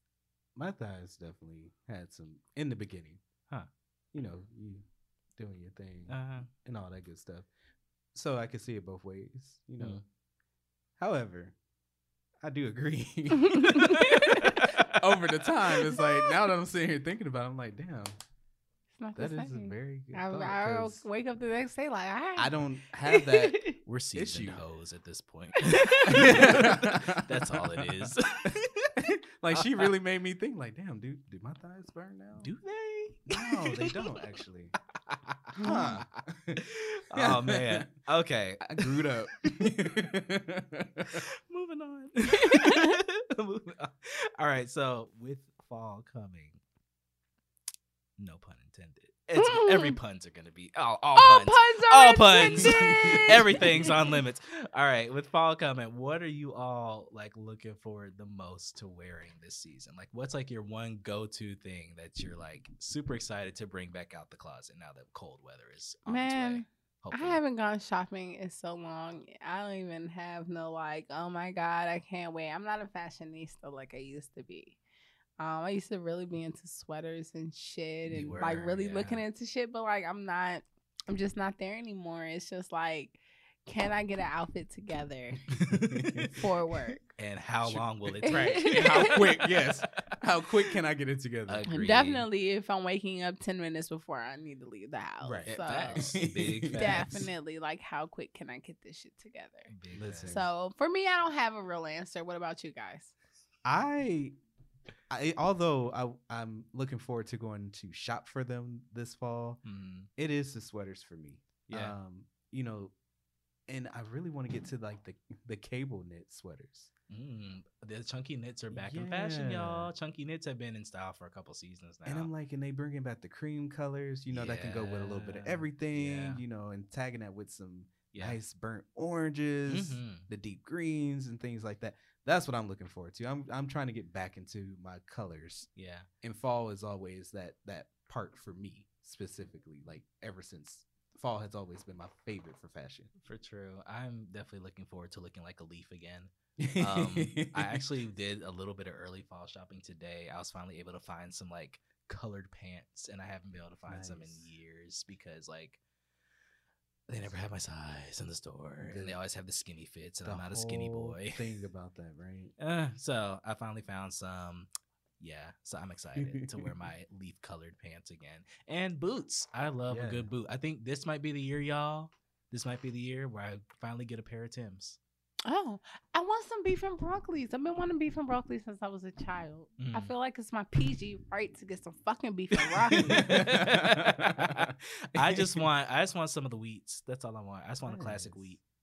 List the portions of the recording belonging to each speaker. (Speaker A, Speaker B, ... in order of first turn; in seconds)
Speaker A: 0.6-3.2, 4.1-4.8, 5.4-7.5, 8.1-10.0, 11.0-11.6, 12.4-18.1, 19.1-21.0, 22.4-24.6, 26.1-28.1, 29.0-32.5, 33.3-34.7, 35.5-37.9, 38.6-41.2, 52.6-53.4, 85.5-86.9, 87.6-91.6, 95.2-97.3, 99.9-100.5, 103.6-104.3, 105.1-109.6, 110.2-112.9, 113.7-116.9, 118.7-119.9, 122.0-135.7, 136.2-143.1, 146.6-147.8, 153.9-154.4, 158.9-159.2, 160.2-162.5, 166.2-166.7, 169.9-170.3, 182.9-185.6, 187.8-188.4
Speaker B: 6.1-6.5, 14.0-14.9, 23.8-28.9, 29.5-29.9, 32.4-34.1, 35.1-35.9, 36.6-39.9, 41.1-46.6, 48.2-67.4, 78.1-79.2, 85.5-86.3, 87.2-89.8, 91.5-92.2, 95.5-97.2, 99.7-100.3, 109.6-110.1, 111.7-111.9, 117.1-122.3, 124.3-126.4, 129.7-130.3, 135.8-136.1, 143.2-155.8, 157.1-161.4, 162.6-164.7, 165.2-175.0, 179.8-180.1, 182.9-188.6
Speaker C: 13.3-14.5, 19.0-22.5, 23.1-23.8, 25.7-26.5, 35.6-35.9, 42.4-43.0, 49.4-50.0, 51.1-53.9, 66.1-74.8, 75.4-85.4, 86.4-87.0, 88.2-89.2, 91.7-99.7, 100.3-103.1, 175.4-183.3